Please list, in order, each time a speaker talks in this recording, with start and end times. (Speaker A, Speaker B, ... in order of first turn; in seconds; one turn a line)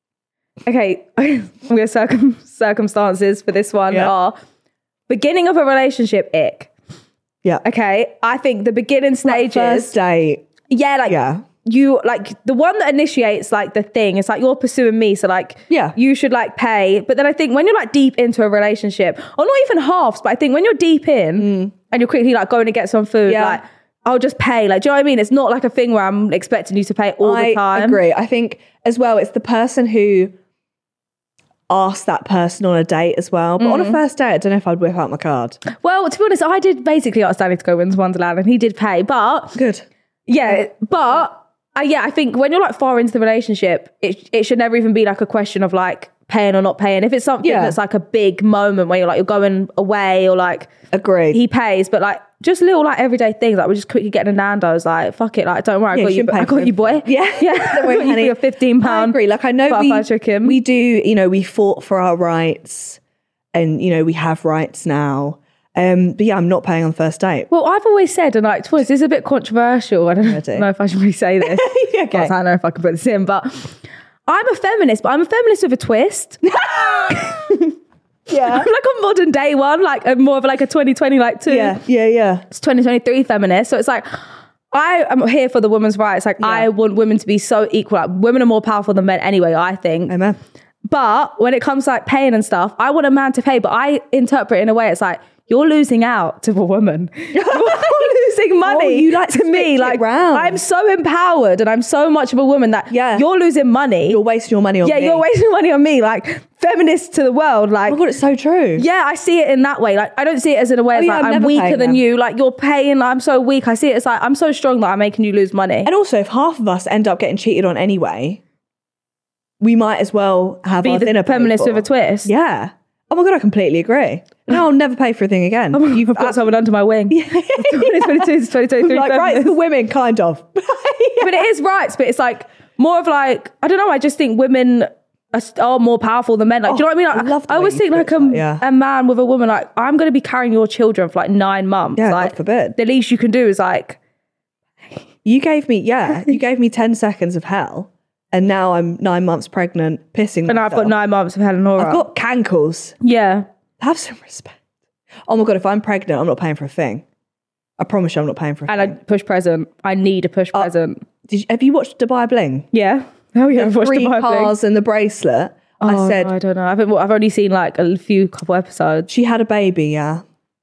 Speaker A: 0.7-4.4
Speaker A: 5.1-6.7
Speaker A: 7.6-9.9
Speaker B: 9.2-10.5
Speaker A: 10.7-28.0
Speaker B: 11.1-11.4
Speaker B: 15.7-15.9
Speaker B: 21.4-21.7
Speaker B: 23.3-23.6
Speaker B: 27.2-30.3
Speaker B: 31.7-35.6
Speaker A: 33.6-34.0
Speaker A: 35.7-39.6
Speaker B: 39.5-39.9
Speaker A: 40.3-50.7
Speaker B: 47.4-47.8
Speaker B: 50.9-51.4
Speaker A: 51.3-60.6
Speaker B: 55.9-63.0
Speaker B: 63.5-67.5
Speaker A: 67.5-73.8
Speaker B: 70.2-70.7
Speaker B: 71.4-72.3
Speaker A: 74.3-76.6
Speaker B: 76.5-77.4
Speaker A: 77.1-77.8
Speaker B: 78.3-78.7
Speaker A: 78.3-81.8
Speaker B: 81.5-82.5
Speaker A: 82.5-90.2
Speaker B: 86.4-86.7
Speaker B: 90.1-90.4
Speaker A: 90.9-104.2
Speaker B: 97.3-100.6
Speaker B: 102.9-103.2
Speaker B: 104.1-105.2
Speaker A: 104.8-108.0
Speaker B: 107.9-108.9
Speaker A: 108.8-115.9
Speaker B: 110.9-112.0
Speaker B: 115.8-118.4
Speaker B: 119.6-126.4
Speaker A: 120.8-122.3
Speaker A: 125.7-129.6
Speaker B: 127.1-131.4
Speaker A: 131.2-144.0
Speaker B: 136.7-138.6
Speaker B: 142.0-142.7
Speaker B: 145.2-150.9
Speaker A: 150.5-152.1
Speaker B: 151.8-152.9
Speaker A: 153.0-153.5
Speaker B: 153.8-154.6
Speaker B: 155.3-157.1
Speaker B: 157.8-159.0
Speaker A: 158.7-161.0
Speaker B: 161.3-162.7
Speaker A: 162.7-164.5
Speaker B: 163.6-166.3
Speaker A: 165.8-169.1
Speaker B: 169.1-170.2